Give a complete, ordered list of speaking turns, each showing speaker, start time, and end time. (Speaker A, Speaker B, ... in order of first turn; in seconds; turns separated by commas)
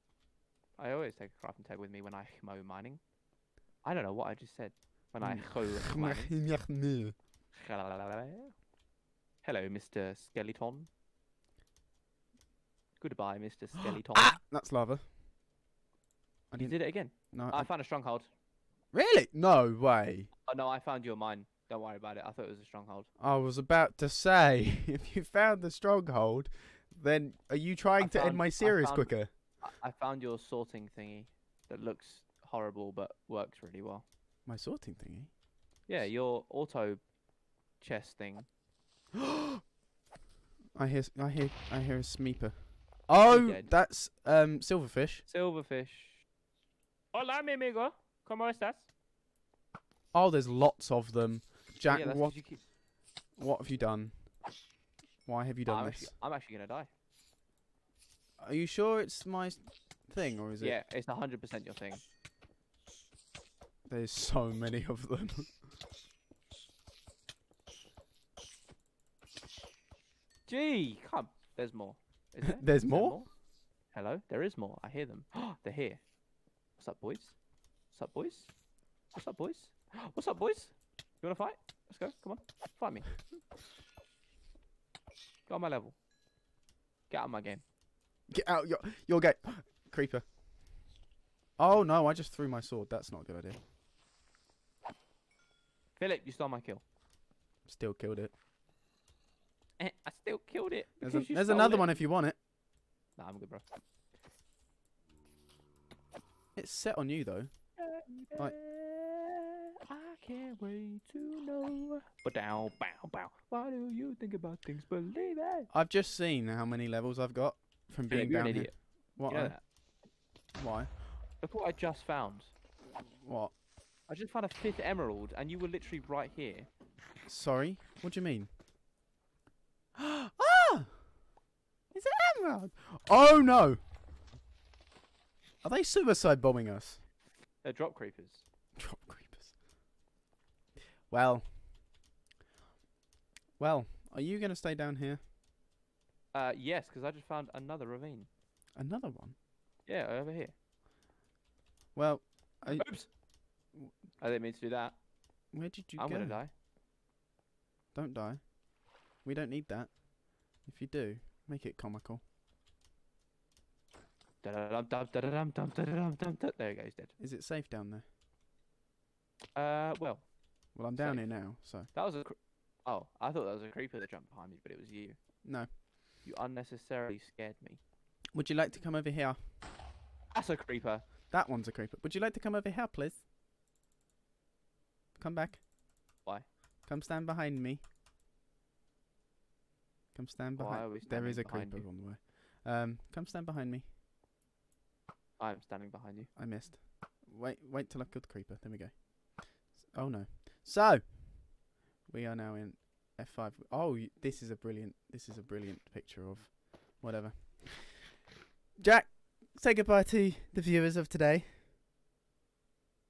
Speaker A: 0.8-3.0, Speaker A: 3.8-6.3, Speaker B: 5.2-7.2, Speaker A: 7.5-8.6, Speaker A: 9.4-10.9, Speaker A: 13.0-14.4, Speaker B: 14.1-15.0, Speaker B: 16.5-17.7, Speaker A: 16.6-18.3, Speaker B: 18.9-20.3, Speaker A: 20.5-23.1, Speaker B: 23.2-29.3, Speaker A: 28.0-34.0, Speaker B: 34.5-35.3, Speaker A: 35.9-37.0, Speaker A: 37.8-38.5, Speaker B: 39.1-39.6, Speaker B: 40.8-45.2, Speaker A: 43.2-43.7, Speaker A: 45.3-46.2, Speaker A: 47.1-48.9, Speaker B: 50.1-52.4, Speaker A: 51.9-52.6, Speaker B: 53.4-54.2, Speaker B: 55.3-56.1, Speaker A: 55.7-56.9, Speaker B: 58.4-60.8, Speaker A: 60.6-62.0, Speaker B: 63.9-65.6, Speaker A: 70.5-73.3, Speaker B: 72.5-73.2, Speaker A: 73.9-76.0, Speaker A: 76.8-77.4, Speaker A: 77.9-78.5, Speaker A: 79.1-83.1, Speaker A: 85.5-86.0, Speaker A: 87.1-87.6, Speaker B: 88.3-90.2, Speaker B: 91.6-93.6, Speaker A: 96.0-96.8, Speaker B: 97.7-98.3, Speaker A: 99.8-101.9, Speaker B: 101.0-102.4, Speaker A: 103.2-103.6, Speaker B: 106.5-107.5, Speaker A: 107.8-115.7, Speaker B: 115.7-119.6, Speaker A: 118.1-119.6, Speaker B: 120.5-120.9, Speaker A: 121.4-122.5, Speaker B: 123.0-123.5, Speaker A: 124.1-126.7, Speaker B: 127.3-128.5, Speaker B: 130.0-131.0, Speaker B: 131.9-133.8, Speaker B: 135.6-137.0, Speaker A: 137.6-138.4, Speaker B: 138.8-139.5, Speaker B: 141.1-141.5, Speaker B: 143.6-145.2, Speaker A: 146.3-148.3, Speaker B: 148.8-149.3, Speaker A: 149.9-150.5, Speaker B: 151.9-152.9, Speaker A: 152.7-153.1, Speaker A: 154.2-155.0, Speaker B: 155.5-156.4, Speaker A: 156.0-156.5, Speaker B: 157.9-158.5, Speaker B: 159.2-159.9, Speaker B: 160.6-162.2, Speaker A: 164.4-167.1, Speaker B: 167.2-168.0, Speaker A: 169.6-170.3, Speaker B: 170.8-171.9, Speaker A: 170.9-172.3, Speaker A: 172.8-175.2, Speaker B: 175.4-175.7, Speaker A: 176.2-177.8, Speaker B: 178.3-179.4, Speaker A: 180.3-181.0, Speaker B: 181.3-183.2, Speaker B: 185.2-185.6, Speaker B: 186.9-187.8, Speaker B: 190.1-193.9, Speaker A: 190.6-191.9, Speaker A: 195.4-196.3, Speaker B: 196.4-208.1, Speaker B: 208.8-211.6